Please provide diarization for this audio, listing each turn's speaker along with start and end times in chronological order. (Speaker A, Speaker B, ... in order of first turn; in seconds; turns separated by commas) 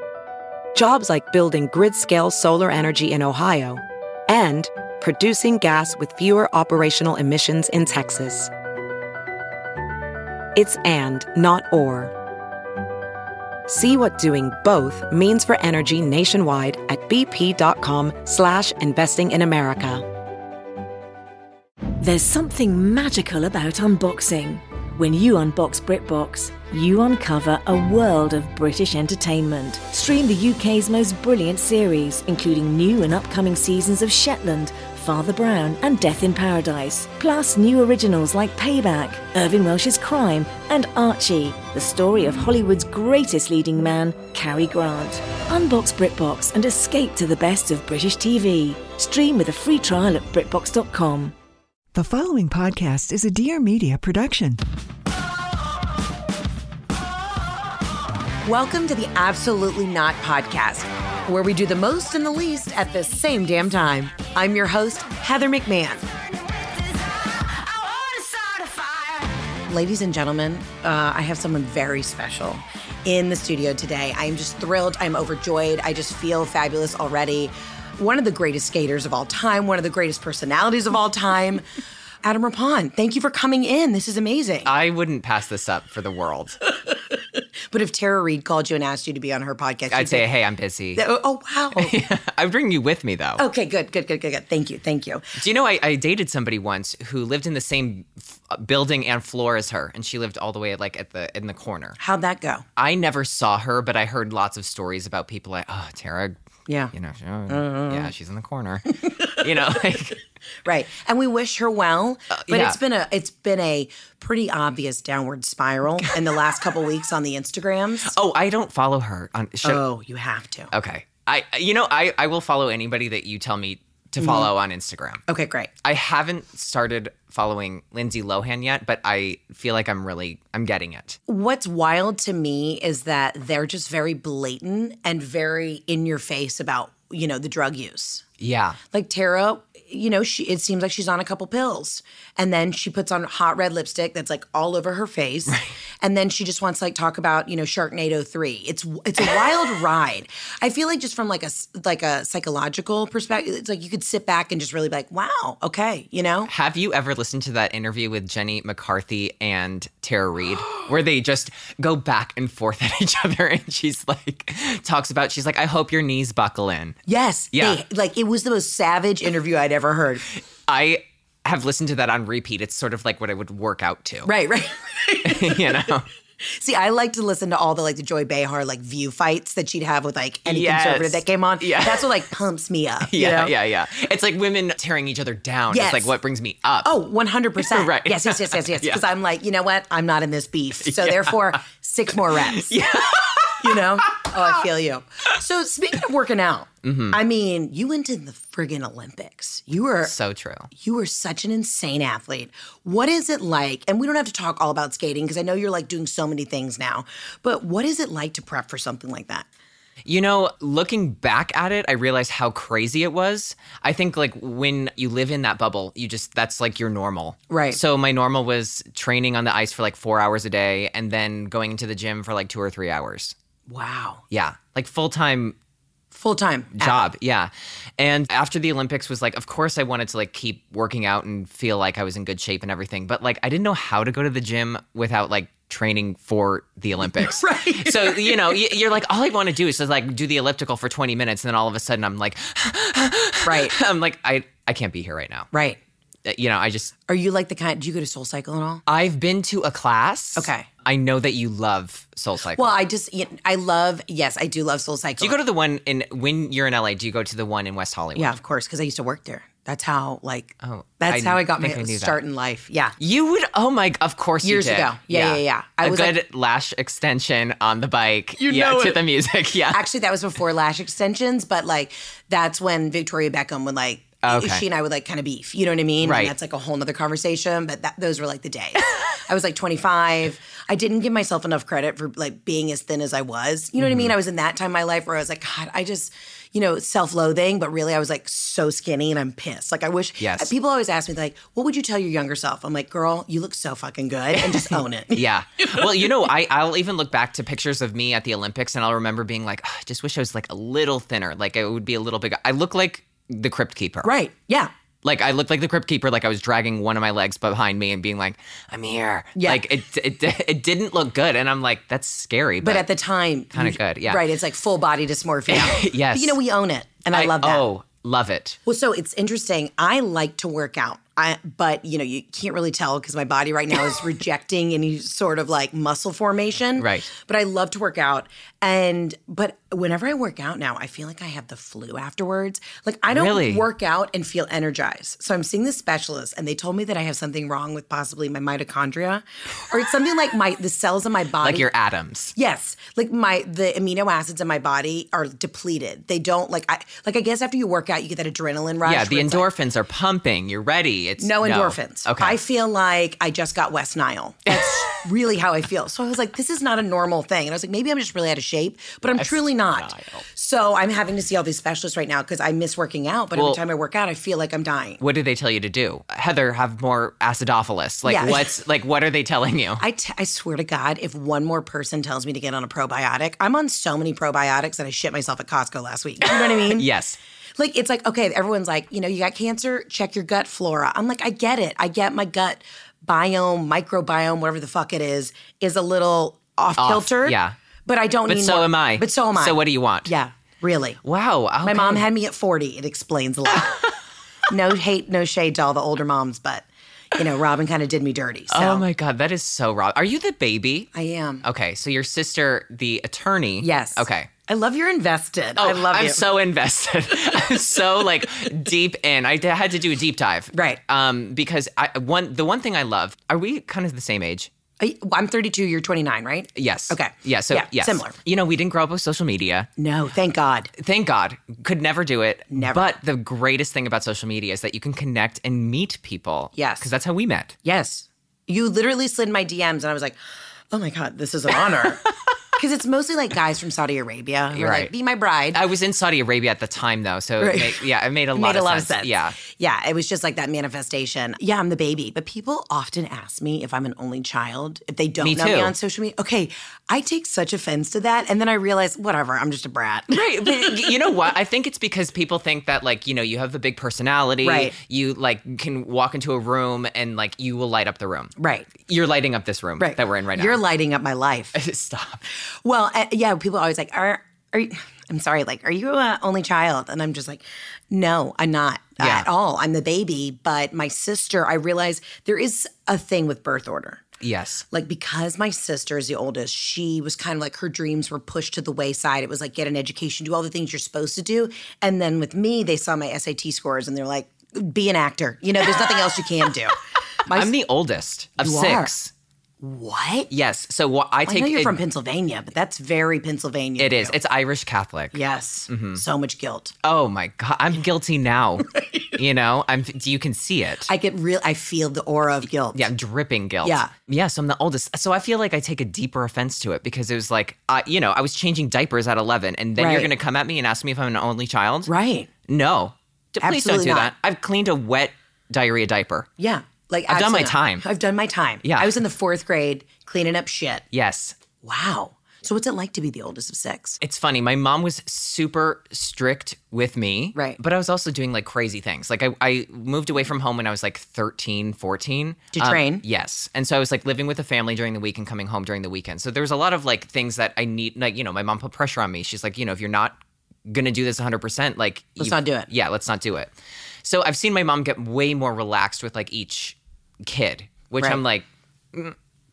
Speaker A: 0.7-8.5, Speaker A: 10.5-12.1, Speaker A: 13.7-20.1, Speaker B: 22.0-51.3, Speaker C: 51.9-54.6, Speaker D: 58.4-66.0, Speaker D: 69.7-81.6, Speaker D: 82.2-84.7, Speaker E: 84.6-86.6, Speaker D: 87.7-90.3, Speaker E: 89.9-91.0, Speaker D: 91.0-92.0, Speaker E: 91.8-93.4, Speaker D: 93.4-95.3, Speaker E: 95.4-102.0, Speaker D: 102.0-102.6, Speaker E: 102.8-106.4, Speaker D: 106.7-106.9, Speaker E: 106.9-110.2, Speaker D: 107.5-108.1, Speaker D: 109.0-109.4, Speaker D: 110.6-118.1, Speaker E: 112.3-112.8, Speaker E: 118.0-119.8, Speaker D: 119.6-120.7, Speaker E: 120.7-125.2, Speaker D: 124.2-124.5, Speaker D: 125.3-125.7, Speaker E: 125.8-131.2, Speaker D: 131.3-138.2, Speaker E: 138.4-138.8, Speaker D: 138.9-156.5, Speaker E: 145.5-145.8, Speaker E: 156.5-167.0, Speaker D: 167.1-170.3, Speaker E: 167.5-167.8, Speaker E: 170.7-174.3, Speaker D: 174.2-175.9, Speaker E: 175.2-176.1, Speaker D: 176.4-183.5, Speaker E: 180.4-182.2, Speaker E: 183.0-186.9, Speaker D: 185.7-186.1, Speaker D: 186.8-192.8, Speaker E: 187.6-189.0, Speaker E: 190.8-191.6, Speaker E: 192.2-194.6, Speaker D: 193.5-200.1, Speaker E: 196.8-197.2, Speaker E: 200.0-200.7, Speaker D: 200.8-209.4, Speaker E: 210.1-223.3, Speaker D: 217.5-217.8, Speaker D: 223.7-224.2, Speaker E: 224.3-225.6, Speaker D: 226.1-227.1, Speaker E: 226.8-245.5, Speaker D: 237.0-238.7, Speaker D: 243.4-243.7, Speaker D: 245.5-245.8, Speaker E: 246.2-246.9, Speaker D: 247.1-248.8, Speaker E: 248.9-252.7, Speaker D: 250.3-250.7, Speaker D: 252.6-255.4, Speaker E: 255.2-258.3, Speaker D: 258.1-262.9, Speaker E: 260.6-262.2, Speaker E: 263.0-269.8, Speaker D: 264.4-266.2, Speaker D: 268.4-269.0, Speaker D: 269.7-296.0, Speaker E: 274.2-274.6, Speaker E: 276.0-276.3, Speaker E: 283.8-284.1, Speaker E: 290.2-290.5, Speaker E: 294.3-304.1, Speaker D: 304.0-304.7, Speaker E: 305.0-312.9, Speaker D: 309.4-309.6, Speaker D: 312.6-317.7, Speaker E: 313.5-314.2, Speaker E: 315.5-316.4, Speaker E: 317.1-318.6, Speaker D: 318.6-341.7, Speaker E: 326.8-327.1, Speaker E: 333.1-333.7, Speaker E: 341.4-342.3, Speaker D: 342.3-349.5, Speaker E: 348.8-352.4, Speaker D: 351.2-365.0, Speaker E: 354.5-354.9, Speaker E: 359.0-360.2, Speaker E: 363.3-363.6, Speaker E: 365.0-369.8, Speaker D: 368.0-368.5, Speaker D: 369.8-376.9, Speaker E: 376.2-377.2, Speaker D: 377.6-391.0, Speaker E: 386.8-387.6, Speaker E: 388.3-390.1, Speaker E: 391.0-392.1, Speaker D: 391.6-393.8, Speaker D: 394.5-398.8, Speaker E: 398.5-400.9, Speaker D: 400.9-401.4, Speaker E: 401.4-404.3, Speaker D: 403.6-406.2, Speaker E: 405.6-414.5, Speaker D: 410.5-410.8, Speaker D: 414.8-418.2, Speaker E: 416.5-419.7, Speaker D: 419.8-420.7, Speaker E: 420.8-427.6, Speaker D: 422.5-422.9, Speaker D: 426.5-426.9, Speaker D: 427.6-430.1, Speaker D: 430.7-435.6, Speaker E: 434.5-434.9, Speaker E: 435.5-439.4, Speaker D: 437.4-451.1, Speaker E: 445.2-445.7, Speaker E: 450.1-460.6, Speaker D: 454.4-454.7, Speaker D: 458.4-458.7, Speaker D: 459.8-461.5, Speaker E: 461.5-462.2, Speaker D: 462.4-474.0, Speaker E: 469.0-469.3, Speaker E: 474.2-474.6, Speaker D: 474.7-487.5, Speaker E: 487.3-489.1, Speaker D: 488.4-488.9, Speaker D: 489.6-490.3, Speaker E: 490.3-491.8, Speaker D: 491.2-494.2, Speaker E: 493.8-496.0, Speaker D: 495.1-496.7, Speaker E: 496.8-500.9, Speaker D: 500.9-502.9, Speaker E: 502.7-511.9, Speaker D: 503.6-503.9, Speaker D: 509.8-510.1, Speaker D: 511.9-512.3, Speaker E: 512.4-516.3, Speaker D: 513.4-514.1, Speaker D: 516.4-520.8, Speaker E: 517.1-517.9, Speaker E: 518.6-519.0, Speaker E: 520.9-521.4, Speaker D: 521.6-524.0, Speaker E: 524.0-549.2, Speaker D: 532.5-533.0, Speaker D: 542.2-542.7